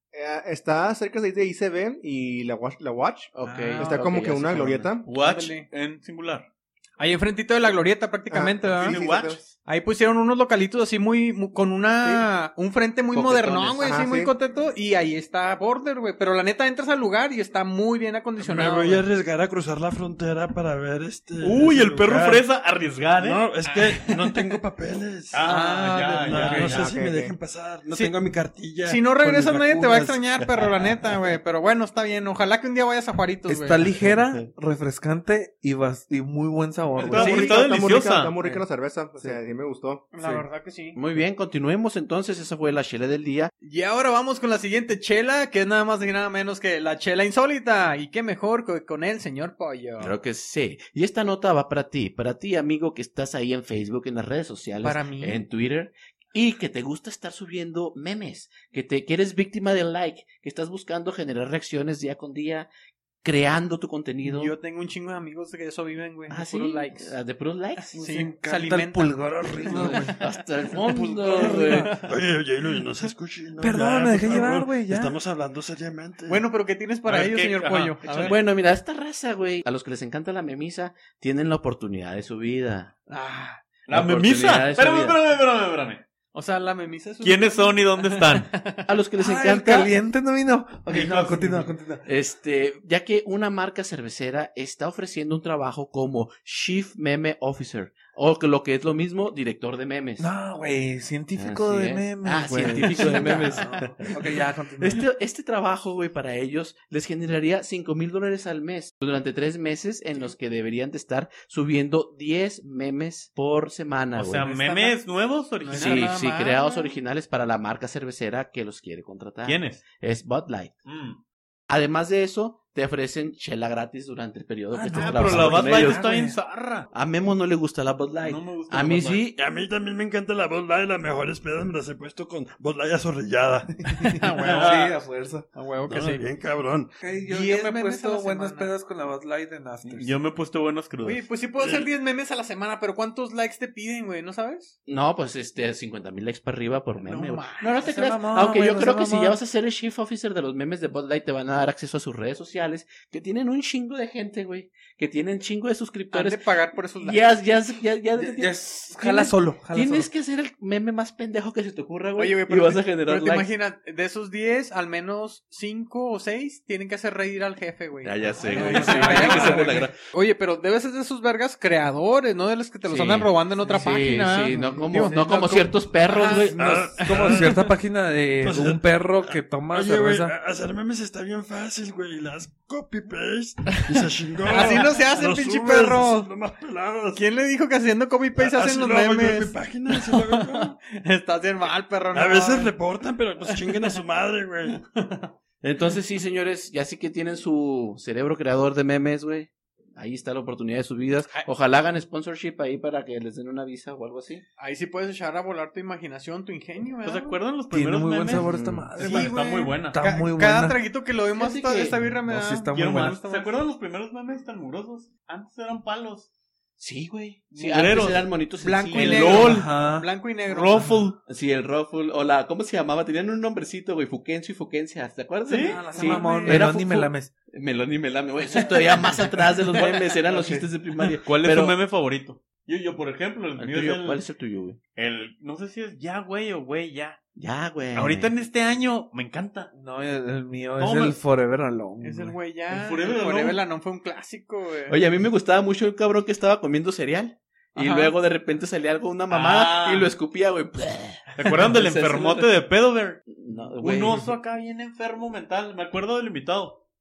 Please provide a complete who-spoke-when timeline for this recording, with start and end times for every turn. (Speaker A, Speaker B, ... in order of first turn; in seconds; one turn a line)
Speaker A: 0.1-5.1
Speaker B: 3.4-4.9
Speaker C: 3.5-3.9
Speaker D: 5.0-6.5
Speaker C: 5.1-5.7
Speaker C: 7.0-9.0
Speaker A: 8.3-9.4
Speaker D: 8.8-9.6
Speaker C: 9.7-19.0
Speaker A: 12.0-12.3
Speaker B: 13.1-13.9
Speaker A: 13.8-14.3
Speaker E: 18.4-22.5
Speaker D: 21.4-23.4
Speaker E: 23.2-30.3
Speaker C: 23.7-24.5
Speaker D: 25.3-26.9
Speaker A: 26.3-27.4
Speaker C: 27.9-28.2
Speaker C: 28.8-33.9
Speaker F: 33.5-37.5
Speaker C: 37.0-37.6
Speaker A: 37.0-40.0
Speaker D: 37.0-38.3
Speaker F: 38.4-38.6
Speaker C: 40.1-41.0
Speaker F: 40.2-40.5
Speaker B: 41.0-43.5
Speaker C: 43.6-50.1
Speaker B: 50.0-62.7
Speaker C: 54.8-55.4
Speaker B: 63.2-64.5
Speaker C: 64.2-67.1
Speaker B: 66.3-68.0
Speaker C: 67.9-70.2
Speaker F: 68.0-70.2
Speaker E: 69.4-70.0
Speaker B: 69.7-71.9
Speaker F: 70.9-72.0
Speaker C: 71.2-72.1
Speaker E: 72.0-76.5
Speaker F: 73.6-75.1
Speaker C: 76.3-78.4
Speaker D: 77.0-78.4
Speaker B: 78.2-83.0
Speaker C: 83.1-83.6
Speaker D: 83.9-86.0
Speaker B: 83.9-85.2
Speaker C: 86.3-88.9
Speaker D: 87.2-88.5
Speaker B: 88.9-89.9
Speaker F: 89.2-92.1
Speaker D: 90.9-91.7
Speaker B: 92.0-100.3
Speaker F: 100.2-105.1
Speaker B: 101.4-104.2
Speaker B: 104.8-114.5
Speaker D: 114.2-116.1
Speaker C: 114.4-115.0
Speaker C: 115.6-117.0
Speaker B: 115.7-120.8
Speaker D: 119.5-119.8
Speaker D: 120.9-121.2
Speaker B: 121.7-126.0
Speaker F: 124.7-126.4
Speaker D: 124.9-126.9
Speaker B: 126.9-129.3
Speaker D: 128.2-129.3
Speaker E: 129.3-133.7
Speaker F: 133.8-135.5
Speaker C: 134.0-134.9
Speaker D: 134.5-134.9
Speaker C: 135.5-136.2
Speaker E: 135.9-136.9
Speaker F: 137.0-140.2
Speaker C: 137.3-138.7
Speaker D: 139.8-141.3
Speaker C: 141.0-144.8
Speaker E: 141.6-141.9
Speaker B: 144.9-156.4
Speaker C: 147.1-148.2
Speaker F: 147.9-149.4
Speaker C: 156.1-157.2
Speaker B: 157.0-163.5
Speaker F: 158.2-160.1
Speaker C: 162.2-177.7
Speaker B: 168.0-170.0
Speaker F: 168.5-169.8
Speaker B: 172.8-176.7
Speaker F: 174.5-175.2
Speaker E: 176.6-177.7
Speaker F: 176.7-180.3
Speaker E: 178.4-187.2
Speaker C: 184.5-186.3
Speaker C: 187.1-192.8
Speaker E: 188.4-190.8
Speaker E: 192.1-194.8
Speaker C: 193.4-194.0
Speaker C: 194.7-195.3
Speaker B: 195.6-204.4
Speaker C: 204.6-207.4
Speaker D: 207.1-208.4
Speaker F: 207.7-209.4
Speaker B: 208.3-208.9
Speaker C: 209.0-213.7
Speaker D: 209.0-210.0
Speaker F: 209.9-210.8
Speaker B: 211.4-212.0
Speaker F: 212.2-213.2
Speaker D: 212.7-216.3
Speaker B: 216.8-219.6
Speaker D: 217.5-218.3
Speaker C: 218.6-220.9
Speaker D: 218.9-219.7
Speaker F: 219.4-220.1
Speaker D: 220.5-221.2
Speaker B: 221.3-231.8
Speaker D: 225.5-226.0
Speaker F: 225.6-227.3
Speaker C: 225.9-226.6
Speaker C: 228.5-230.6
Speaker D: 231.2-234.2
Speaker B: 233.6-234.8
Speaker D: 235.0-237.2
Speaker B: 237.4-238.3
Speaker D: 237.9-239.7
Speaker F: 239.7-242.4
Speaker D: 240.8-241.2
Speaker C: 242.0-245.0
Speaker D: 242.7-243.6
Speaker B: 244.9-252.5
Speaker C: 247.8-248.2
Speaker D: 249.3-250.1
Speaker D: 251.4-253.2
Speaker B: 253.3-254.2
Speaker D: 253.8-256.8